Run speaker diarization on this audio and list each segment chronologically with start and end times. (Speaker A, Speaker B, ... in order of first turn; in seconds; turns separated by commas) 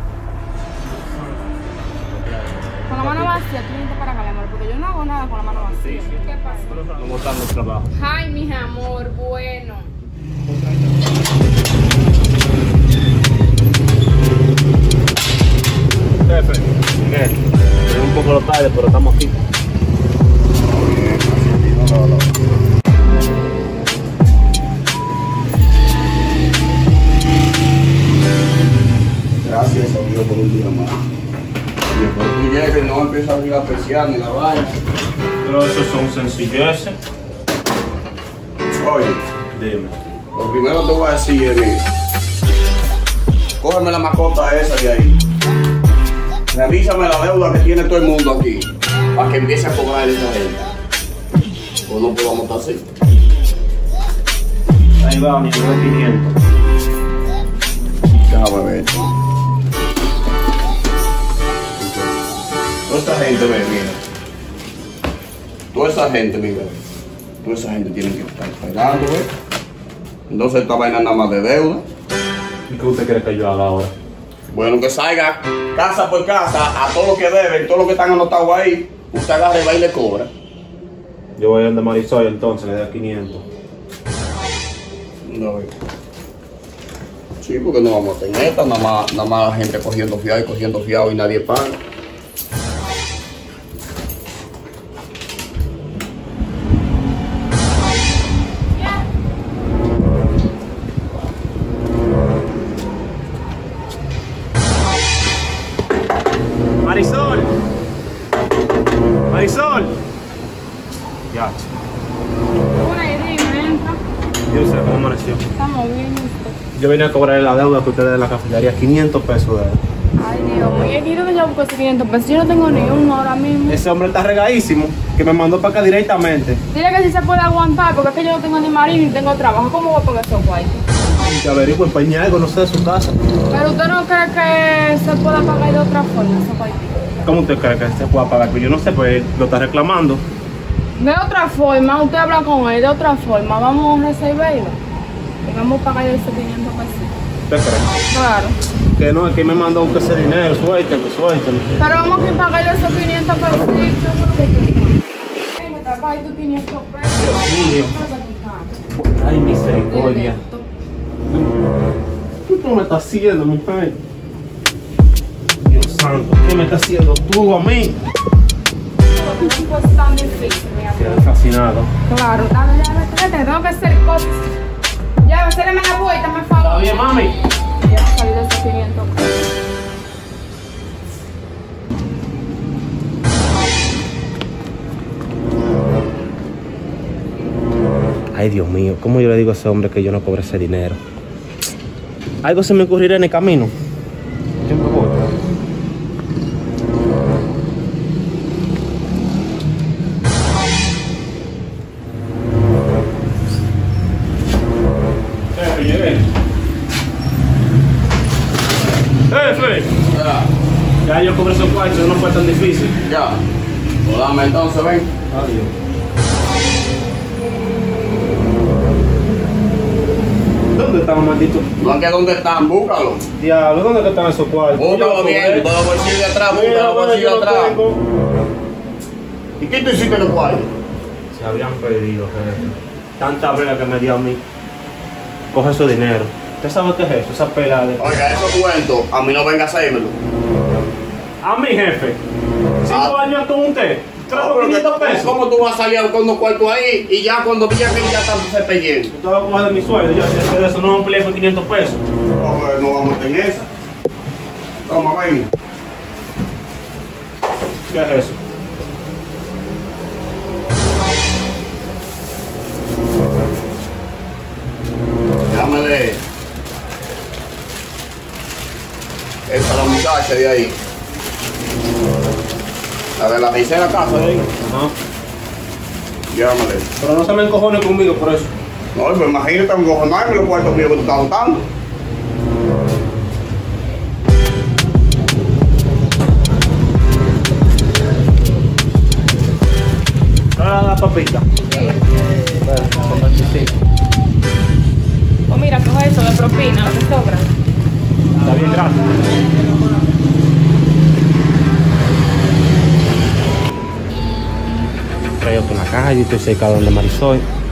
Speaker A: 0.9-1.4, Speaker A: 1.9-3.4, Speaker B: 2.9-7.1, Speaker A: 5.5-7.9, Speaker B: 7.9-9.9, Speaker A: 16.2-19.4, Speaker C: 20.6-22.3, Speaker C: 29.4-31.0, Speaker C: 31.9-34.7, Speaker A: 35.4-37.0, Speaker C: 38.8-39.2, Speaker A: 39.5-39.9, Speaker C: 40.3-41.9, Speaker C: 43.6-45.2, Speaker C: 46.5-50.6, Speaker C: 51.9-52.8, Speaker A: 55.0-56.3, Speaker C: 58.3-59.1, Speaker C: 61.8-62.1, Speaker C: 62.9-64.0, Speaker C: 65.7-66.8, Speaker C: 67.4-69.3, Speaker C: 70.3-71.8, Speaker A: 72.7-73.9, Speaker C: 74.5-80.3, Speaker A: 81.4-83.4, Speaker C: 85.2-85.7, Speaker C: 87.4-91.8, Speaker A: 106.8-107.5, Speaker A: 109.3-109.9, Speaker A: 111.3-111.6, Speaker B: 112.8-114.0, Speaker A: 114.5-115.4, Speaker B: 115.5-116.6, Speaker A: 116.7-119.8, Speaker B: 120.2-123.8, Speaker A: 123.7-126.6, Speaker B: 126.7-130.8, Speaker A: 131.1-133.1, Speaker B: 133.5-137.1, Speaker A: 137.2-140.2, Speaker B: 141.0-144.8, Speaker B: 145.4-147.1, Speaker A: 147.5-147.9, Speaker B: 148.1-148.6, Speaker A: 148.9-151.7, Speaker B: 151.8-158.8, Speaker A: 157.2-157.9, Speaker A: 159.0-160.4, Speaker B: 159.9-160.7, Speaker A: 162.4-164.0, Speaker A: 165.7-168.0, Speaker B: 169.1-171.2, Speaker A: 170.9-171.9, Speaker B: 172.1-174.4, Speaker B: 175.2-177.3, Speaker A: 176.6-177.3, Speaker B: 177.8-179.3, Speaker A: 188.3-191.0, Speaker A: 192.4-193.7, Speaker A: 194.6-195.2, Speaker A: 205.5-206.2, Speaker A: 209.3-209.9, Speaker C: 210.0-210.5, Speaker A: 211.0-212.9, Speaker C: 213.0-213.4, Speaker C: 214.0-215.1, Speaker A: 215.3-215.7, Speaker A: 220.7-221.7, Speaker C: 221.8-223.2, Speaker A: 223.4-225.7, Speaker C: 224.7-227.8, Speaker A: 226.5-228.0, Speaker C: 229.6-230.7, Speaker A: 231.3-234.4, Speaker A: 235.5-238.2, Speaker C: 238.0-240.2, Speaker A: 241.4-242.2, Speaker A: 242.8-245.3, Speaker C: 242.9-243.2, Speaker C: 244.3-249.1, Speaker A: 249.1-252.0, Speaker C: 252.3-253.7, Speaker C: 254.8-255.5, Speaker A: 257.9-258.4, Speaker C: 265.5-266.2, Speaker C: 269.5-270.7, Speaker C: 273.2-274.4, Speaker A: 274.6-274.9, Speaker C: 276.3-276.9, Speaker A: 277.0-278.5, Speaker C: 278.9-281.6, Speaker A: 290.6-291.5, Speaker B: 291.6-292.1, Speaker A: 292.6-293.7, Speaker B: 295.5-297.5, Speaker B: 298.4-300.3, Speaker A: 298.4-299.2, Speaker A: 305.4-307.4